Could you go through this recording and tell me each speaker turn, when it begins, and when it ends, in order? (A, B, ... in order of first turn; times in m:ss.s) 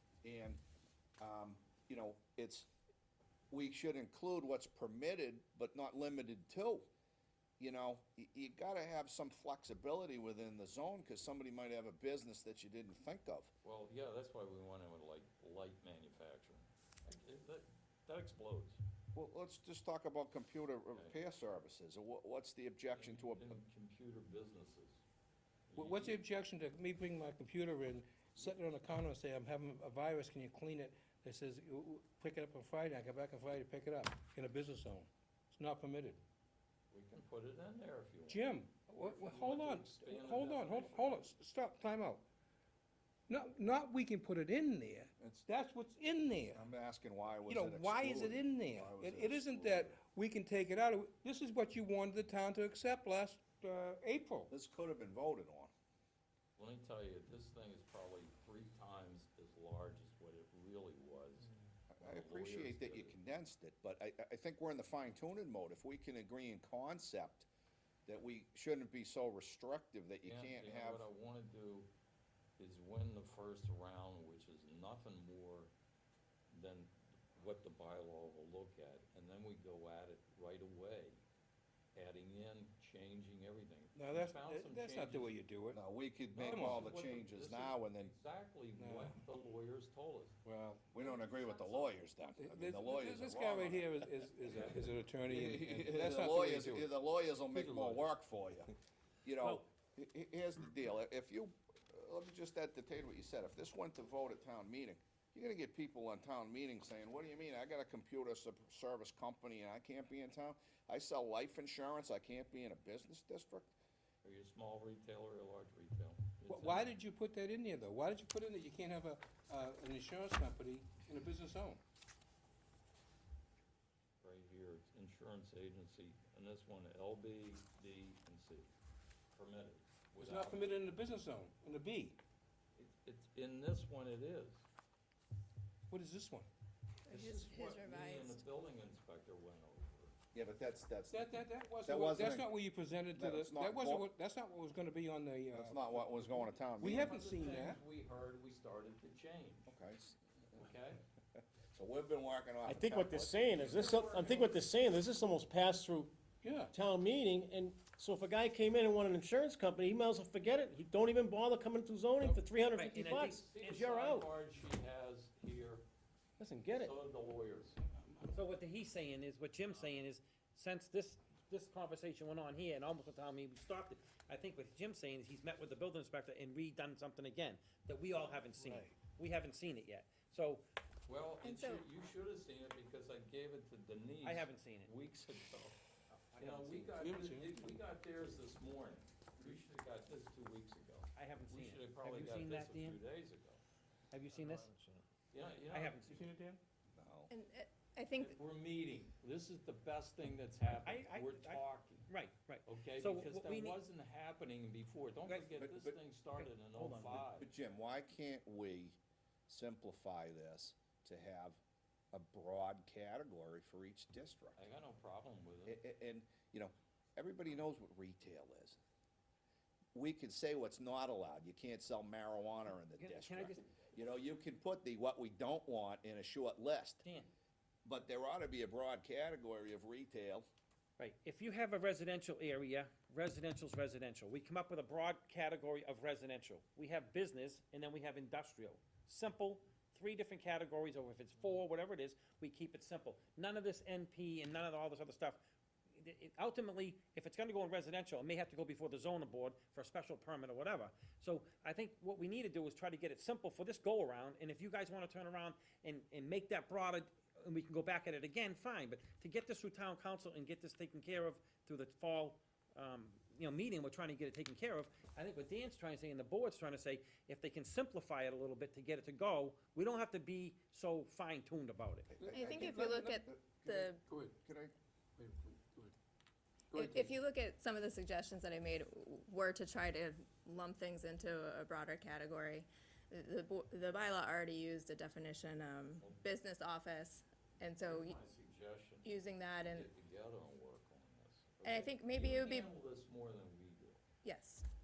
0:00.2-0:00.6 A
0:01.2-0:02.7 A
0:03.5-0:06.9 A
0:07.6-0:13.5 A
0:13.6-0:18.8 B
0:19.1-0:23.6 A
0:20.9-0:21.2 B
0:23.0-0:25.0 B
0:25.7-0:26.2 B
0:25.8-0:36.2 C
0:36.9-0:41.3 B
0:38.3-0:42.2 C
0:43.3-0:46.7 C
0:45.2-0:45.4 A
0:46.5-0:50.0 A
0:47.5-0:54.5 C
0:54.5-0:55.7 A
0:56.6-1:01.5 B
1:01.9-1:07.5 A
1:02.0-1:03.2 B
1:08.1-1:11.1 A
1:10.2-1:11.9 B
1:12.6-1:15.7 B
1:16.5-1:21.2 B
1:22.0-1:25.4 B
1:24.0-1:25.8 C
1:25.7-1:28.2 A
1:26.4-1:26.9 C
1:26.4-1:30.4 B
1:28.8-1:29.2 C
1:30.4-1:30.9 C
1:30.9-1:38.7 A
1:31.0-1:31.9 D
1:32.4-1:36.9 C
1:37.5-1:38.1 B
1:39.2-1:53.7 A
1:54.2-1:57.0 B
1:56.5-2:01.8 C
2:04.2-2:08.7 B
2:09.3-2:10.8 B
2:10.2-2:12.2 C
2:12.8-2:14.6 B
2:15.9-2:16.5 C
2:17.1-2:18.4 D
2:17.1-2:20.1 B
2:20.3-2:22.5 A
2:21.1-2:27.8 C
2:23.1-2:24.1 A
2:25.5-2:27.1 A
2:26.8-2:29.7 B
2:29.7-2:30.2 A
2:30.6-2:31.0 B
2:31.4-2:33.1 A
2:32.6-2:36.2 E
2:33.0-2:34.8 B
2:36.4-2:36.7 C
2:36.7-2:44.3 E
2:42.8-2:43.8 F
2:43.4-2:45.8 B
2:46.4-2:46.9 E
2:46.7-2:47.8 B
2:47.8-2:48.4 C
2:48.3-3:00.6 F
2:49.7-2:50.0 B
2:58.6-2:58.9 C
3:01.1-3:05.8 B
3:01.4-3:01.8 D
3:04.2-3:04.9 F
3:06.1-3:07.0 F
3:06.4-3:13.6 B
3:07.0-3:07.8 C
3:11.1-3:13.0 F
3:14.1-3:14.8 F
3:14.3-3:15.0 C
3:15.3-3:16.0 B
3:15.7-3:16.2 F
3:16.1-3:16.6 C
3:16.9-3:17.3 A
3:17.3-3:18.4 D
3:18.2-3:22.1 B
3:20.7-3:23.8 F
3:22.7-3:27.5 B
3:25.5-3:26.0 A
3:26.4-3:27.3 F
3:27.2-3:29.0 A
3:29.5-3:31.6 A
3:32.1-3:34.6 A
3:34.6-3:35.8 B
3:35.7-3:38.8 A
3:39.9-3:47.0 A
3:43.0-3:43.6 F
3:47.0-3:47.3 F
3:47.8-3:50.5 A
3:51.0-4:05.4 F
4:06.0-4:32.1 F
4:32.1-4:34.7 A
4:32.2-4:33.2 C
4:32.3-4:34.0 D
4:34.1-4:34.4 C
4:35.2-4:36.0 C
4:36.7-4:37.2 C
4:36.7-4:48.2 D
4:47.8-4:54.0 B
4:49.0-4:49.9 D
4:51.6-4:52.7 D
4:54.2-4:54.6 D